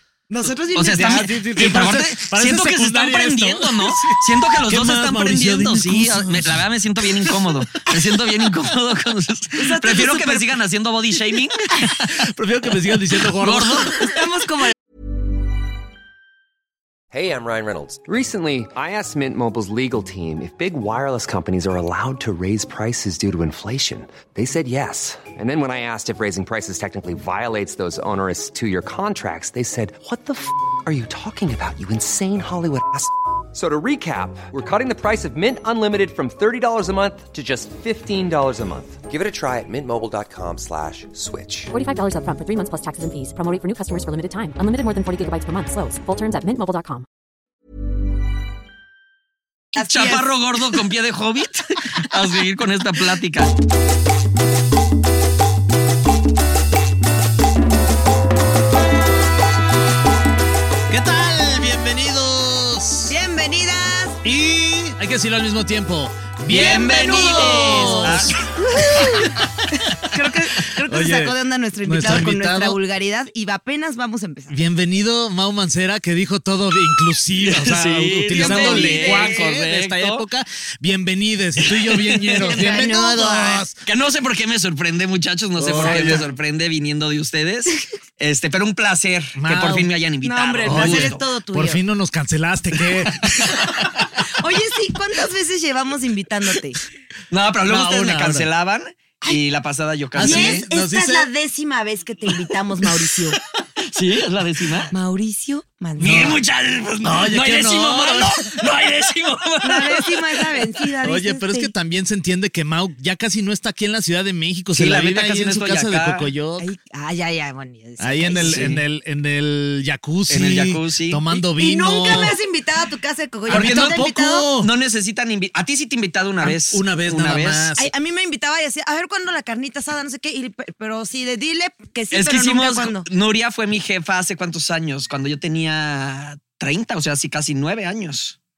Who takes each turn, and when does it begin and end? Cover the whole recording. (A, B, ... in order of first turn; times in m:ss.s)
0:00.3-0:01.5 A
0:00.8-0:11.7 B
0:00.9-0:07.5 C
0:09.6-0:10.5 A
0:12.1-0:14.0 C
0:13.4-0:14.1 B
0:14.0-0:14.7 A
0:17.1-0:41.7 D
0:41.7-0:47.0 E
0:49.8-0:50.3 A
0:49.8-0:53.5 B
1:00.9-1:03.1 C
1:03.1-1:04.2 A
1:04.2-1:09.5 C
1:06.5-1:08.3 A
1:06.5-1:08.3 B
1:09.0-1:14.6 A
1:10.8-1:12.8 C
1:14.5-1:23.8 C
1:17.4-1:20.2 B
1:18.3-1:19.4 A
1:21.6-1:22.6 B
1:22.3-1:23.6 A
1:23.8-1:31.2 B
1:25.6-1:26.3 C
1:29.4-1:29.9 C
1:30.2-1:31.8 A
1:30.7-1:33.7 C
1:33.3-1:34.1 B
1:34.2-1:36.8 A
1:37.3-1:40.6 B
1:37.7-1:38.5 C
1:40.2-1:41.3 C
1:40.2-1:43.4 A
1:43.8-1:44.9 B
1:44.9-1:46.4 A
1:46.0-1:50.6 B
1:46.0-1:46.4 C
1:47.0-1:48.6 C
1:49.6-1:51.7 A
1:51.0-1:56.7 C
1:54.7-1:56.3 B
1:56.6-1:58.8 A
1:58.0-2:02.4 C
1:58.4-1:58.8 B
2:00.3-2:01.3 B
2:01.5-2:04.5 A
2:03.5-2:04.7 C
2:03.5-2:04.0 B
2:04.6-2:07.7 B
2:06.4-2:07.9 C
2:07.8-2:13.0 A
2:12.1-2:18.4 B